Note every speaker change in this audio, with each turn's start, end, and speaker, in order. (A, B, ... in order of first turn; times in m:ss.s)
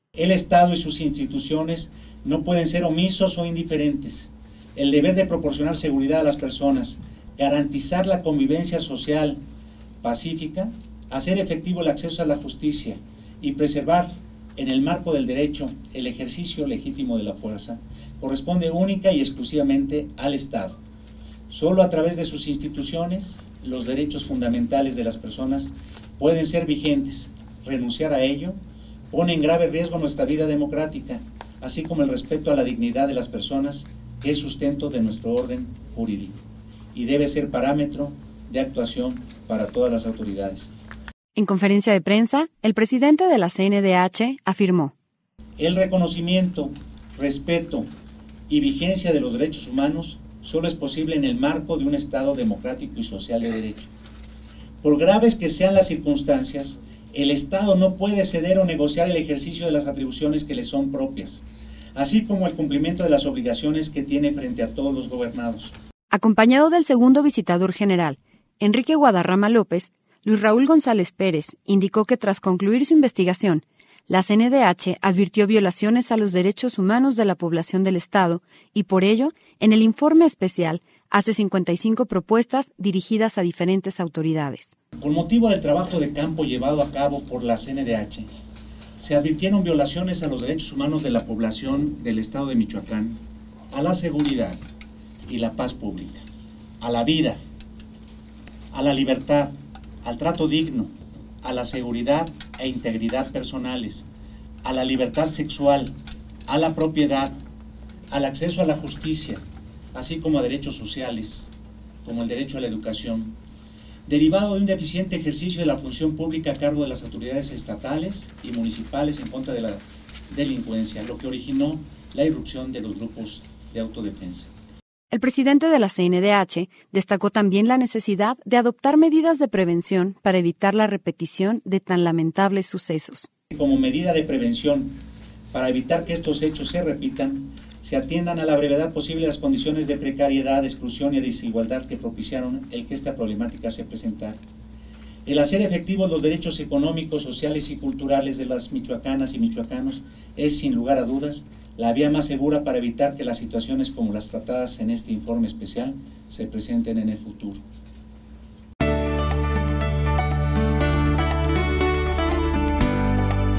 0:00.1-0:09.4 A
0:10.0-0:20.8 A
0:21.5-0:28.6 A
0:29.1-0:36.4 A
0:36.9-0:40.7 A
0:41.3-0:44.9 B
0:45.6-0:47.9 A
0:48.5-0:53.9 A
0:54.8-1:05.7 A
1:06.1-1:24.8 B
1:25.0-1:28.3 A
1:29.0-1:34.6 A
1:35.3-1:36.2 A
1:36.8-1:37.4 A
1:38.7-1:40.9 A
1:41.4-1:44.1 A
1:44.6-1:45.9 A
1:46.5-1:47.3 A
1:48.1-1:49.4 A
1:49.9-1:51.5 A
1:52.0-1:53.4 A
1:54.0-2:04.5 A
2:05.1-2:13.3 B
2:13.5-2:24.4 A
2:25.2-2:37.6 A